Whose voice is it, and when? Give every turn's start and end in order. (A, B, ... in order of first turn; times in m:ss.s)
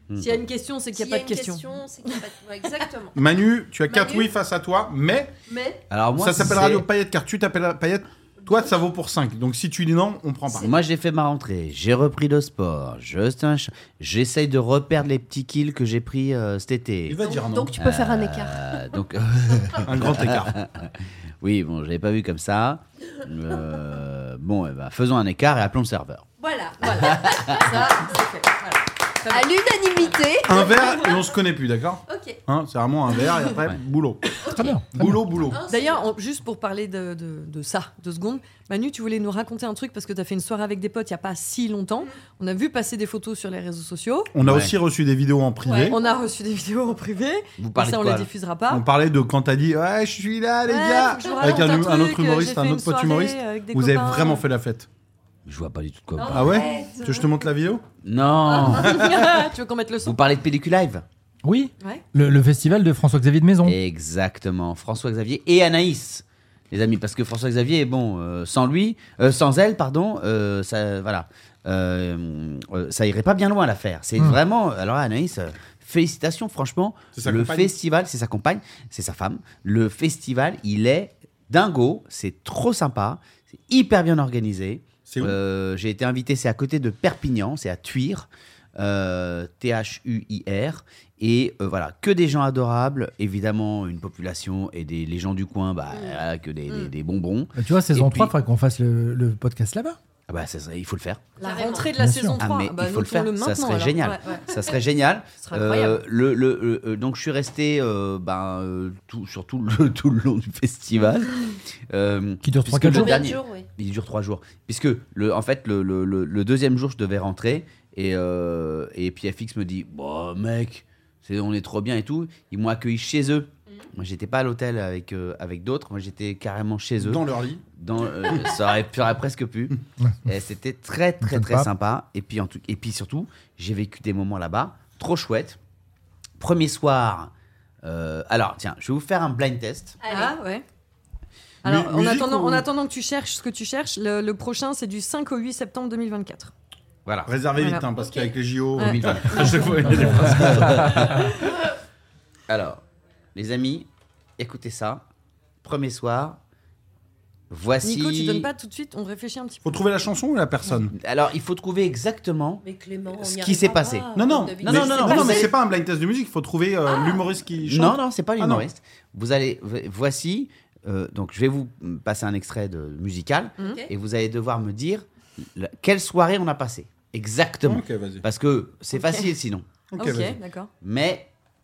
0:00.1-0:00.4 A
0:00.2-0:02.2 B
0:01.0-0:03.2 C
0:03.1-0:05.3 D
0:03.9-0:04.3 C
0:05.5-0:05.8 C
0:05.9-0:06.9 A
0:06.2-0:10.7 D
0:10.5-0:17.2 A
0:17.1-0:17.8 D
0:17.2-0:18.9 C
0:17.8-0:26.3 A
0:19.8-0:20.6 D
0:26.4-0:28.2 C
0:26.8-0:29.5 B
0:26.9-0:27.6 A
0:29.3-0:31.2 C
0:30.4-0:35.6 D
0:32.1-0:32.4 C
0:34.4-0:34.8 C
0:34.5-0:35.2 E
0:35.4-0:36.1 C
0:35.7-0:44.3 B
0:44.3-0:46.0 D
0:44.4-0:44.7 A
0:45.6-0:46.2 C
0:45.9-0:48.8 B
0:47.6-0:48.3 A
0:48.7-0:54.9 D
0:50.7-0:54.4 B
0:51.2-0:51.8 C
0:55.4-0:56.7 A
0:56.2-0:57.1 C
0:56.3-0:57.8 D
0:58.0-0:59.1 A
0:58.6-1:00.2 B
0:58.9-0:59.1 D
1:00.0-1:01.0 A
1:01.4-1:03.8 E
1:03.6-1:38.3 A
1:17.1-1:17.7 D
1:25.0-1:25.4 D
1:37.6-1:40.0 E
1:40.3-1:41.3 A
1:41.4-1:44.4 B
1:41.4-1:41.9 C
1:42.0-1:42.4 E
1:42.4-2:07.2 A
1:44.2-1:44.7 C
1:45.5-1:46.0 B
1:52.4-1:53.2 E
1:52.9-1:53.7 C
2:07.0-2:07.6 D
2:07.8-2:15.6 A
2:11.2-2:11.7 E
2:16.4-2:17.3 A
2:17.8-2:20.0 A
2:20.0-2:20.4 C
2:20.1-2:20.6 B
2:21.6-2:26.5 B
2:21.6-2:22.7 D
2:27.0-2:27.3 A
2:27.3-2:31.3 D
2:27.6-2:27.9 B
2:27.9-2:28.3 C
2:28.8-2:30.1 B
2:28.8-2:29.6 A
2:30.1-2:31.3 A
2:30.9-2:31.4 B
2:32.5-2:32.8 A
2:33.4-2:35.1 A
2:35.6-2:36.4 A
2:37.5-2:38.5 A
2:37.8-2:39.8 B
2:39.6-2:40.9 D
2:40.9-2:45.5 A
2:42.6-2:45.6 C
2:44.1-2:48.7 D
2:47.0-2:47.2 C
2:47.6-2:59.7 A
2:53.6-2:53.9 C
2:57.6-2:58.2 D
2:58.9-2:59.3 B
2:59.9-3:00.4 D
3:00.0-3:00.7 B
3:00.8-3:01.3 A